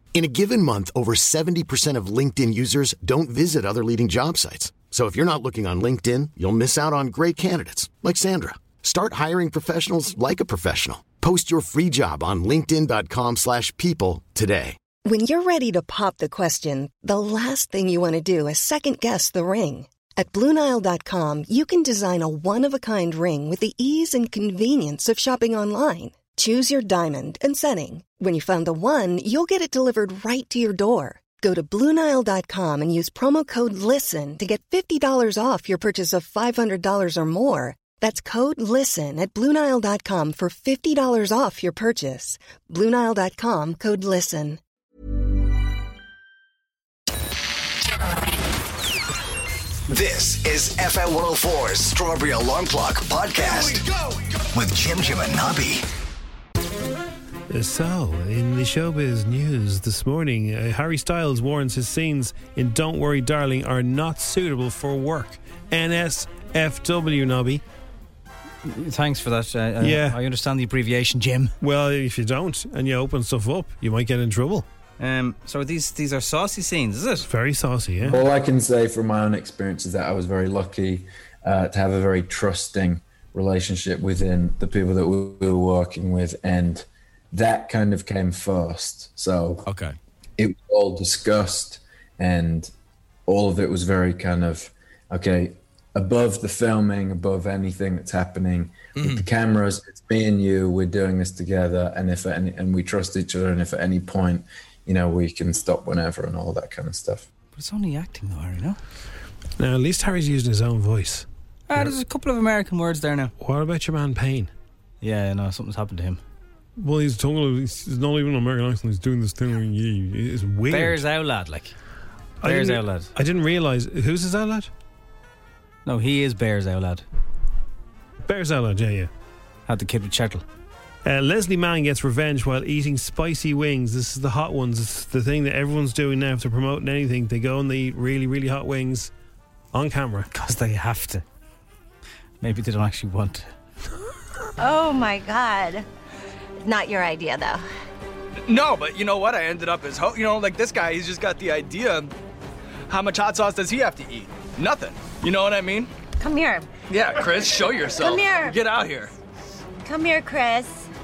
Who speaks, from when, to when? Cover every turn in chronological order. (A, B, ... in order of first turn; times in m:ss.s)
0:00.1-0:14.8 A
0:15.0-0:44.6 B
0:49.9-0:53.9 C
0:54.5-0:55.8 C
0:57.5-1:07.6 D
1:08.6-1:11.6 E
1:09.8-1:10.2 D
1:11.6-1:14.7 D
1:15.0-1:17.3 E
1:17.3-1:18.2 D
1:18.1-1:29.7 F
1:29.7-1:29.9 G
1:30.4-1:32.7 F
1:33.3-1:47.3 F
1:47.6-1:48.8 E
1:49.6-1:51.9 D
1:51.7-1:53.3 E
1:53.4-1:54.5 D
1:55.0-1:56.2 E
1:56.8-2:01.0 D
2:00.7-2:01.8 E
2:02.4-2:04.7 D
2:02.4-2:03.1 E
2:05.8-2:07.0 E
2:08.2-2:09.1 D
2:09.7-2:10.4 E
2:11.0-2:19.1 D
2:19.7-2:20.3 D
2:20.3-2:21.2 E
2:22.4-2:23.5 E
2:24.6-2:25.9 H
2:26.6-2:27.7 H
2:28.5-2:32.1 G
2:32.9-2:35.9 G
2:36.2-2:36.7 H
2:36.9-2:39.1 G
2:38.0-2:38.6 H
2:39.8-2:40.9 H